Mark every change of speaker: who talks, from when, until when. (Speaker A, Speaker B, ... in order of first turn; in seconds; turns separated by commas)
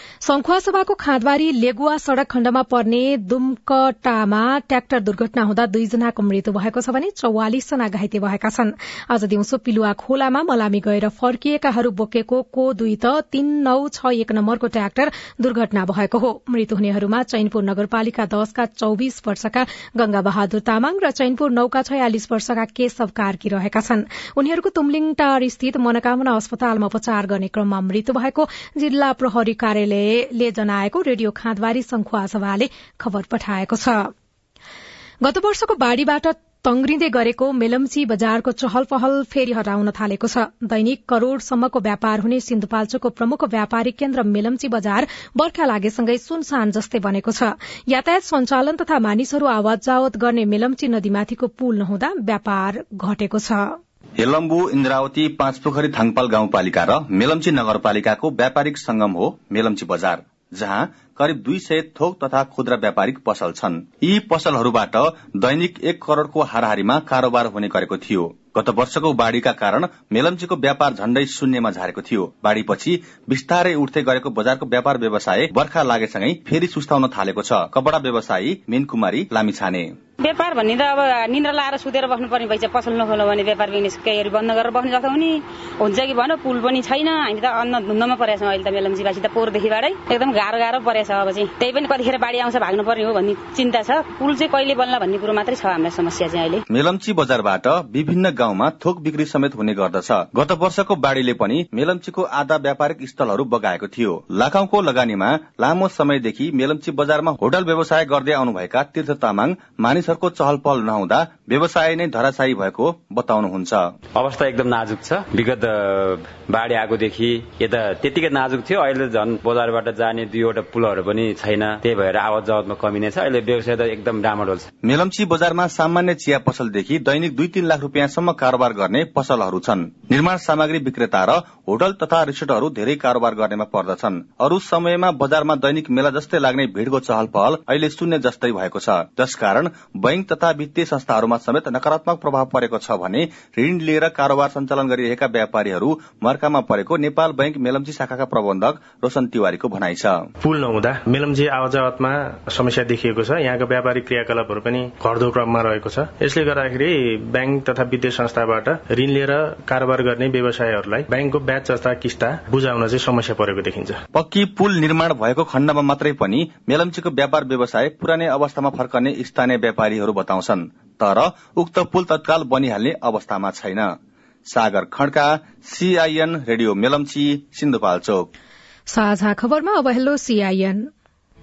Speaker A: 0.2-34.1, Speaker A: 35.2-53.8, Speaker B: 54.2-79.9, Speaker C: 80.2-96.6, Speaker B: 96.7-113.9, Speaker D: 114.1-124.7, Speaker B: 124.8-150.2, Speaker E: 150.4-164.0, Speaker B: 164.1-173.9, Speaker B: 174.5-178.3, Speaker A: 178.9-180.8